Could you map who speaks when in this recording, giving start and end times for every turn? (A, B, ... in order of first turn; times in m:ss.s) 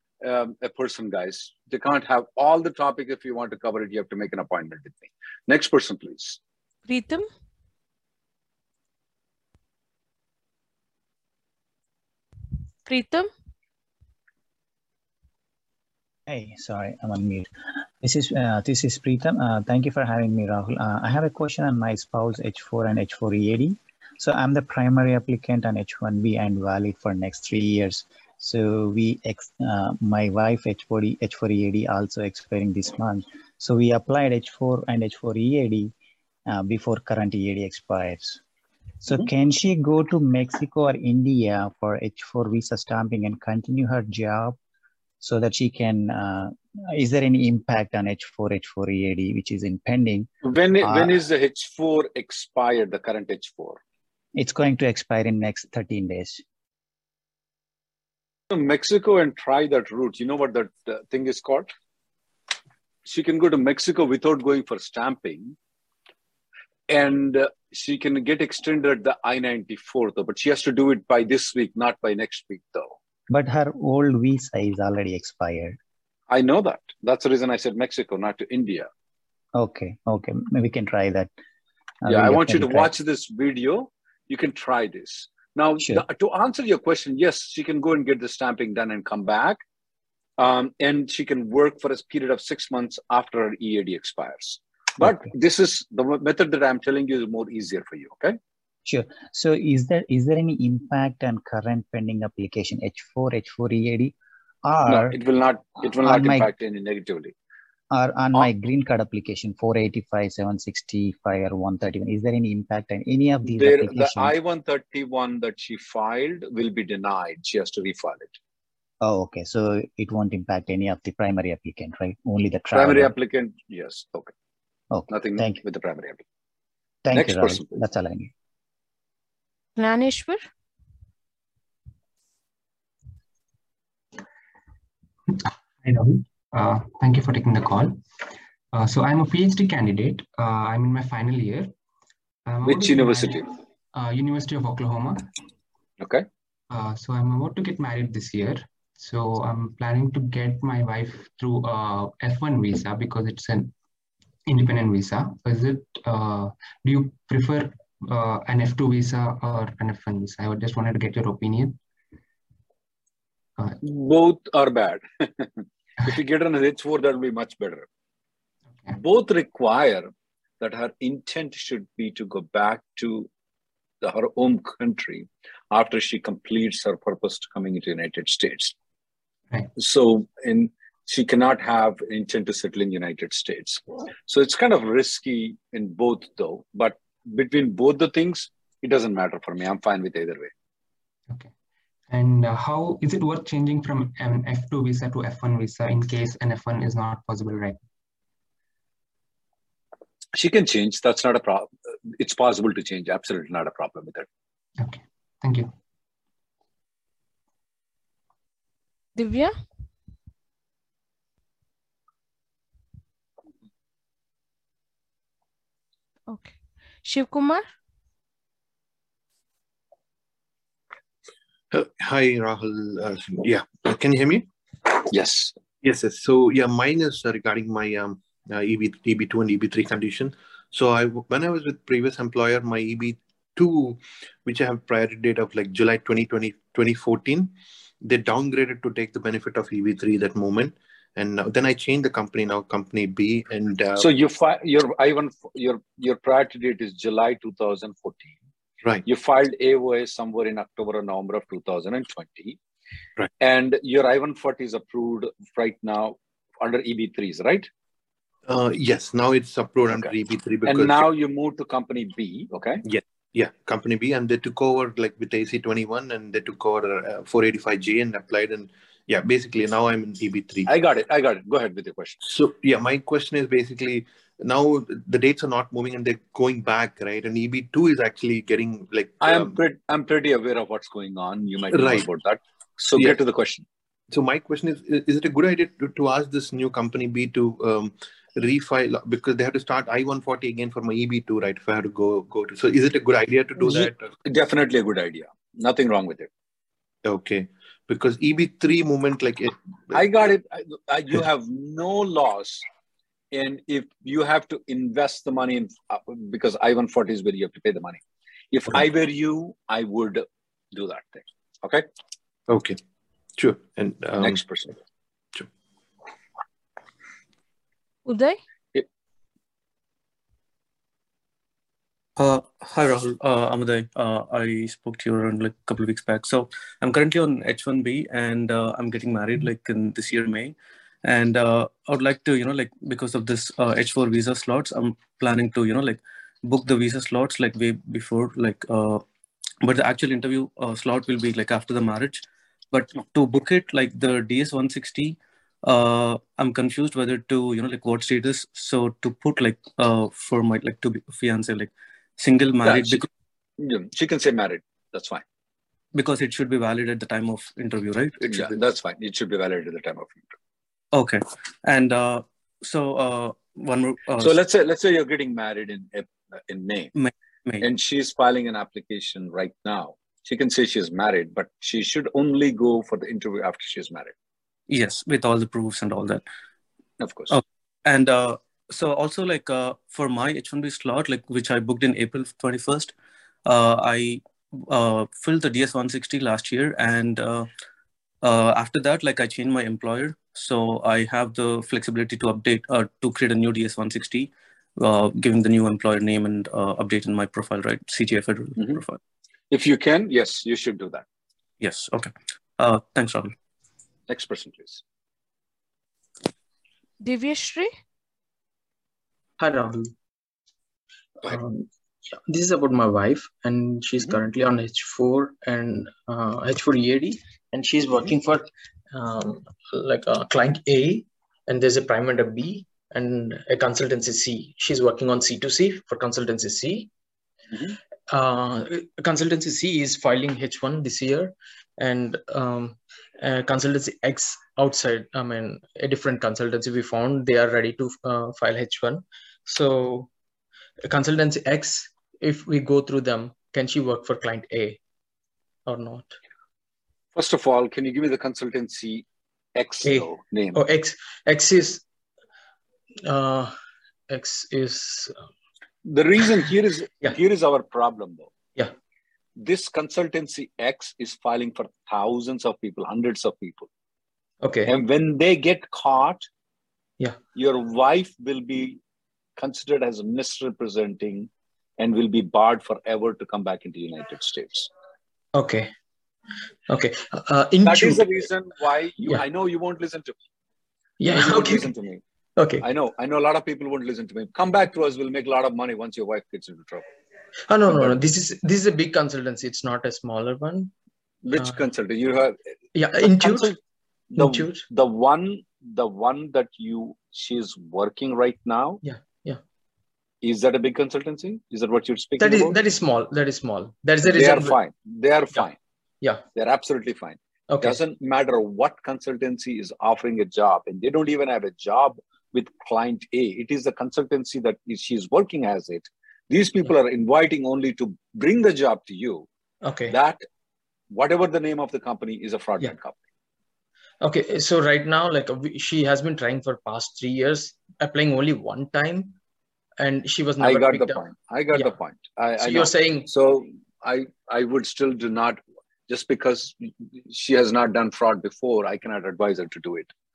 0:00.2-0:06.4 A
0:06.9-0:07.3 B
0:12.9-0:13.3 B
0:16.3-0:35.9 C
0:36.5-0:38.4 C
0:39.0-0:44.6 C
0:45.2-0:50.3 C
0:50.4-0:53.8 A
0:50.8-0:51.1 C
0:54.4-0:56.4 C
0:58.5-1:01.7 A
1:03.0-1:05.6 A
1:06.9-1:13.0 A
1:13.3-1:15.8 C
1:16.3-1:18.9 A
1:19.6-1:21.3 C
1:22.0-1:22.9 C
1:22.1-1:29.6 A
1:30.4-1:38.4 A
1:38.9-1:45.2 C
1:44.9-1:47.3 A
1:45.9-1:46.5 C
1:47.9-1:54.4 C
1:53.5-1:58.4 A
1:59.0-2:03.1 C
2:02.7-2:04.3 A
2:04.9-2:05.6 C
2:05.1-2:06.2 A
2:07.0-2:08.3 C
2:07.1-2:07.8 A
2:09.8-2:10.4 B
2:15.3-2:18.0 D
2:18.7-2:21.7 D
2:22.5-2:25.3 D
2:22.6-2:23.5 A
2:26.0-2:26.2 A
2:26.7-2:33.7 D
2:34.5-2:41.8 D
2:43.8-2:47.9 A
2:49.0-2:53.3 A
2:54.0-2:58.7 A
2:59.8-3:10.5 A
3:12.1-3:17.8 D
3:20.4-3:24.3 A
3:24.8-3:25.7 D
3:29.2-3:29.6 B
3:36.3-3:37.6 B
3:41.7-3:44.4 E
3:45.1-3:45.5 A
3:45.8-4:04.1 E
4:04.0-4:08.4 A
4:09.1-4:12.6 A
4:13.4-4:17.7 A
4:18.5-4:21.1 E
4:20.7-4:22.8 A
4:22.9-4:30.7 E
4:30.7-4:32.2 A
4:32.2-4:39.6 E
4:39.2-4:43.6 A
4:41.7-4:42.1 E
4:44.1-4:54.1 E
4:53.6-4:56.3 A
4:57.0-5:00.1 E
4:59.9-5:02.6 A
5:03.3-5:08.0 A
5:08.5-5:11.9 A
5:12.5-5:12.8 E
5:13.4-5:14.4 E
5:14.2-5:14.7 A
5:18.1-5:18.4 B
5:22.2-5:39.0 F
5:39.6-5:53.1 F
5:52.6-5:53.0 A
5:53.6-5:55.2 A
5:55.9-5:58.5 F
5:58.2-6:00.3 A
6:00.9-6:04.4 F
6:04.2-6:06.9 A
6:07.0-6:07.7 F
6:07.6-6:14.1 A
6:14.7-6:16.2 F
6:17.0-6:17.4 A
6:17.3-6:23.0 F
6:23.5-6:27.5 F
6:28.2-6:39.0 F
6:38.6-6:38.8 A
6:39.5-6:41.0 A
6:41.6-6:43.4 F
6:44.1-6:44.8 A
6:47.0-6:47.8 B
6:49.4-6:50.0 G
6:51.2-7:06.9 G
7:08.1-7:20.1 G
7:20.8-7:24.8 G
7:25.7-7:26.2 G
7:27.2-7:29.0 A
7:29.6-7:30.6 A
7:29.8-7:31.8 G
7:33.0-7:33.6 G
7:34.1-7:35.2 G
7:35.8-7:38.3 A
7:39.4-7:43.7 A
7:44.4-7:44.8 G
7:44.7-7:46.3 A
7:47.4-7:48.8 A
7:49.4-7:54.7 A
7:55.4-7:55.7 G
7:56.7-7:58.2 G
7:57.6-8:00.2 A
8:01.0-8:01.7 G
8:01.1-8:02.0 A
8:02.4-8:02.7 G
8:02.6-8:06.9 A
8:07.5-8:10.7 G
8:07.7-8:08.0 A
8:11.2-8:12.4 A
8:11.4-8:11.6 G
8:12.7-8:13.6 G
8:13.0-8:13.6 A
8:14.1-8:18.8 A
8:14.2-8:14.6 G
8:18.8-8:19.4 G
8:20.2-8:22.6 A
8:22.2-8:24.6 G
8:24.0-8:25.6 A
8:26.4-8:39.3 A
8:27.5-8:27.8 G
8:39.6-8:40.0 G
8:39.9-8:40.2 A
8:40.9-8:43.0 A
8:44.0-8:49.2 G
8:49.8-8:51.8 G
8:50.4-8:59.9 A
8:52.4-8:53.1 G